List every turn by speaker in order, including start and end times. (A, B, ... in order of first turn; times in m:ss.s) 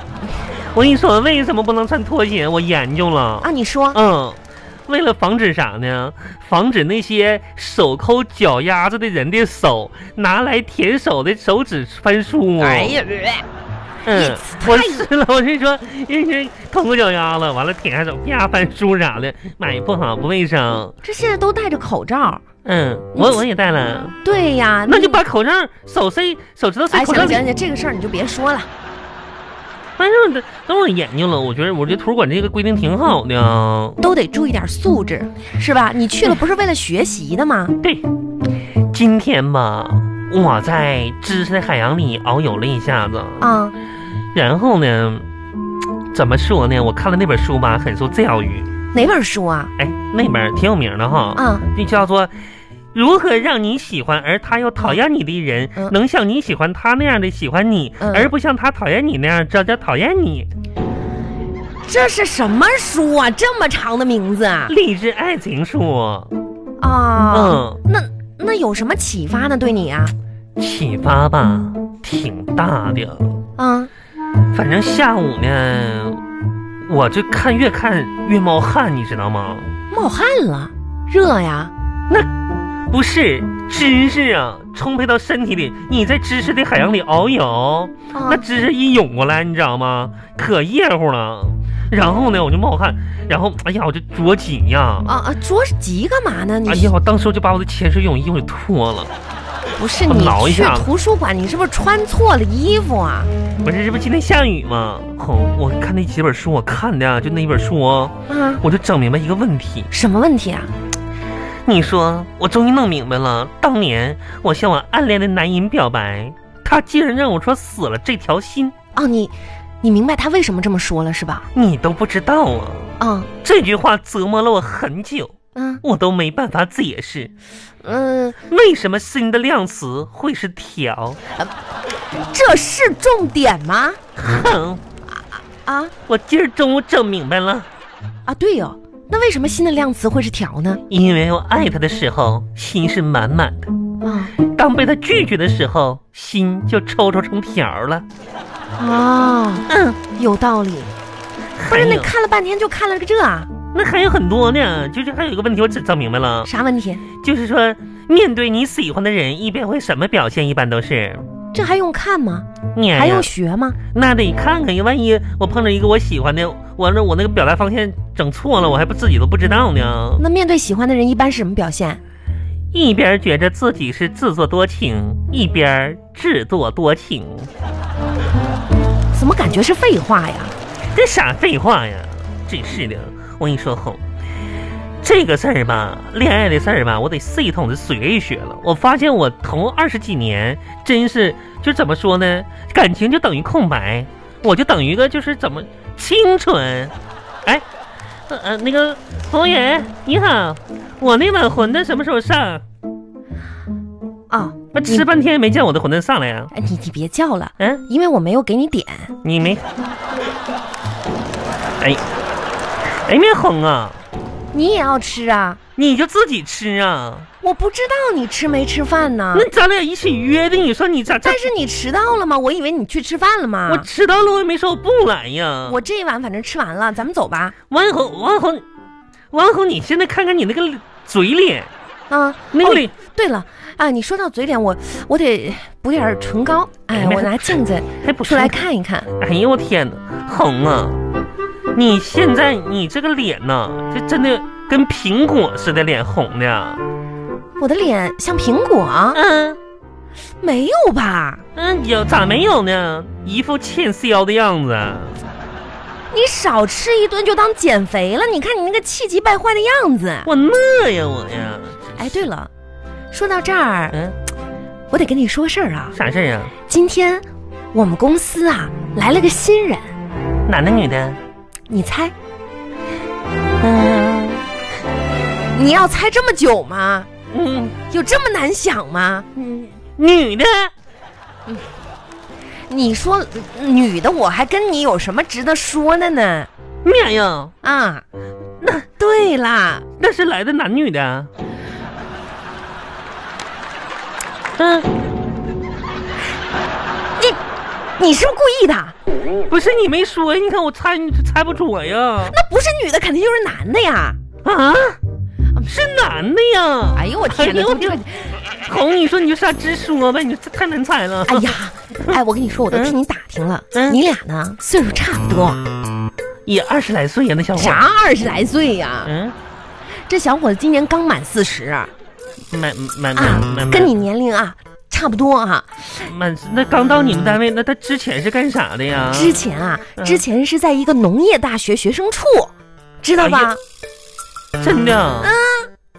0:00.7-0:13.0 A
0:03.4-0:04.0 B
0:12.6-0:13.5 B
0:14.0-0:20.9 A
0:14.1-0:15.1 B
0:21.0-0:22.4 B
0:22.6-0:24.2 A
0:23.2-0:23.4 B
0:24.2-0:25.2 B
0:24.9-0:27.4 A
0:26.9-0:28.7 B
0:30.0-0:34.0 A
0:34.0-0:37.8 B
0:38.9-0:43.6 A
0:43.4-0:43.8 B
0:44.3-0:45.3 A
0:46.1-0:48.7 A
0:48.9-0:49.7 B
0:49.8-0:52.3 A
0:51.4-0:51.7 B
0:52.9-1:00.5 A
0:58.0-0:58.3 B
1:01.8-1:04.8 B
1:04.7-1:06.3 A
1:06.8-1:10.1 B
1:07.3-1:07.8 A
1:10.6-1:13.4 A
1:13.6-1:13.9 B
1:14.5-1:16.2 A
1:16.8-1:19.7 A
1:19.9-1:21.7 B
1:22.9-1:35.1 A
1:28.1-1:28.4 B
1:35.1-1:36.9 B
1:36.7-1:39.1 A
1:39.8-1:43.3 B
1:40.1-1:40.9 A
1:43.6-1:49.9 A
1:48.3-1:48.6 B
1:49.9-1:50.7 B
1:51.7-1:58.7 A
1:59.0-2:01.5 B
2:01.5-2:07.3 A
2:03.0-2:03.3 B
2:05.6-2:05.8 B
2:07.8-2:08.4 B
2:08.5-2:11.2 A
2:12.3-2:14.0 B
2:14.2-2:14.8 A
2:15.1-2:15.9 B
2:16.1-2:17.7 A
2:18.3-2:20.8 B
2:20.9-2:23.7 A
2:24.0-2:24.3 B
2:24.4-2:28.0 A
2:28.8-2:30.9 B
2:29.7-2:30.0 A
2:31.6-2:32.1 A
2:31.7-2:33.5 B
2:33.7-2:36.5 A
2:36.5-2:37.0 B
2:37.2-2:41.2 A
2:41.5-2:43.8 B
2:42.8-2:43.3 A
2:43.9-2:50.2 A
2:50.2-2:52.0 B
2:52.7-2:57.5 A
2:59.1-3:00.6 B
3:00.9-3:04.0 A
3:05.0-3:17.6 A
3:18.3-3:22.6 A
3:24.3-3:25.1 B
3:24.7-3:26.5 A
3:26.5-3:29.1 B
3:27.6-3:27.8 A
3:29.2-3:29.7 A
3:33.0-3:34.0 A
3:34.5-3:35.6 B
3:35.8-3:37.3 A
3:37.4-3:39.5 B
3:39.3-3:41.5 A
3:41.2-3:43.9 B
3:43.7-3:45.8 A
3:45.6-3:47.6 B
3:47.7-3:48.6 A
3:49.3-3:51.7 A
3:52.1-3:59.1 B
3:52.5-3:52.9 A
3:56.9-3:58.6 A
3:59.1-4:01.0 A
4:01.7-4:06.8 A
4:07.6-4:09.2 B
4:09.1-4:09.6 A
4:10.4-4:11.4 B
4:11.6-4:15.2 A
4:16.1-4:20.3 B
4:20.2-4:22.3 A
4:22.0-4:22.5 B
4:23.1-4:24.0 B
4:24.9-4:26.0 B
4:26.0-4:26.5 A
4:26.7-4:29.9 B
4:30.5-4:31.2 A
4:31.7-4:32.1 B
4:33.6-4:34.4 A
4:35.5-4:37.1 B
4:37.3-4:37.8 A
4:37.9-4:39.3 B
4:39.4-4:40.7 A
4:42.7-4:46.5 B
4:46.8-4:47.5 A
4:47.6-4:48.0 B
4:48.6-4:48.9 A
4:49.0-4:49.8 B
4:50.0-4:51.3 A
4:54.6-4:54.9 A
4:58.0-4:59.0 B
4:59.5-5:02.4 A
5:02.2-5:04.2 B
5:04.4-5:05.0 A
5:05.6-5:11.6 A
5:06.9-5:08.3 B
5:11.3-5:15.6 B
5:12.7-5:13.0 A
5:16.5-5:17.8 A
5:17.6-5:19.1 B
5:19.0-5:19.4 A
5:20.1-5:21.9 B
5:22.5-5:24.0 A
5:23.2-5:26.0 B
5:26.0-5:29.4 A
5:29.1-5:33.6 B
5:30.0-5:30.2 A
5:33.2-5:33.5 A
5:34.6-5:35.4 A
5:35.2-5:35.7 B